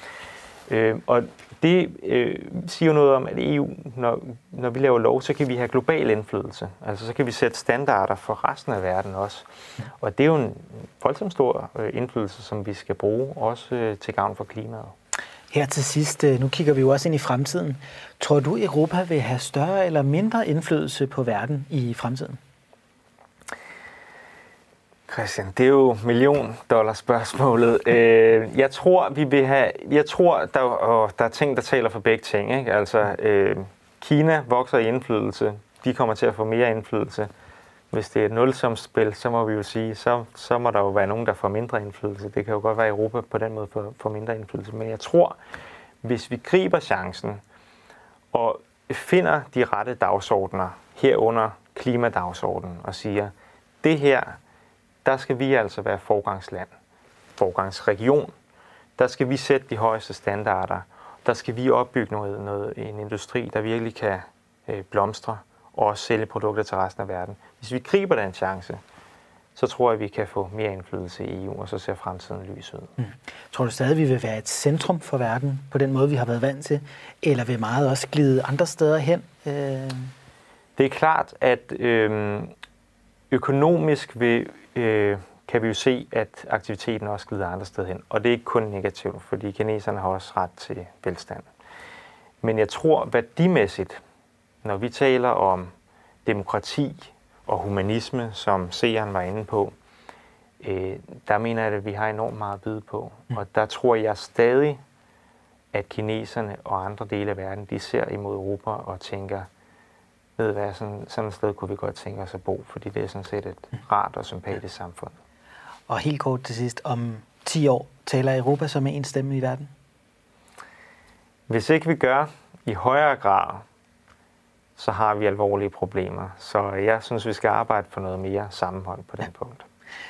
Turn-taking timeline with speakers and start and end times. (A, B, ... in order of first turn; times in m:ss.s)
0:00.7-0:15.0 A
0:15.5-0:22.4 B
0:25.1-0:37.3 A
0:37.9-0:45.4 A
0:46.0-0:47.4 A
0:48.3-0:54.4 A
0:55.0-0:56.7 A
0:57.4-0:58.3 A
0:59.0-1:08.8 A
1:09.6-1:12.9 A
1:13.0-1:20.1 B
1:20.8-1:22.5 A
1:23.3-1:31.5 A
1:32.4-1:34.0 A
1:34.6-1:35.7 A
1:36.2-1:39.8 A
1:40.6-1:44.8 A
1:45.7-1:49.5 A
1:50.4-1:55.2 A
1:55.9-1:59.7 B
2:01.5-2:03.6 A
2:04.8-2:09.7 A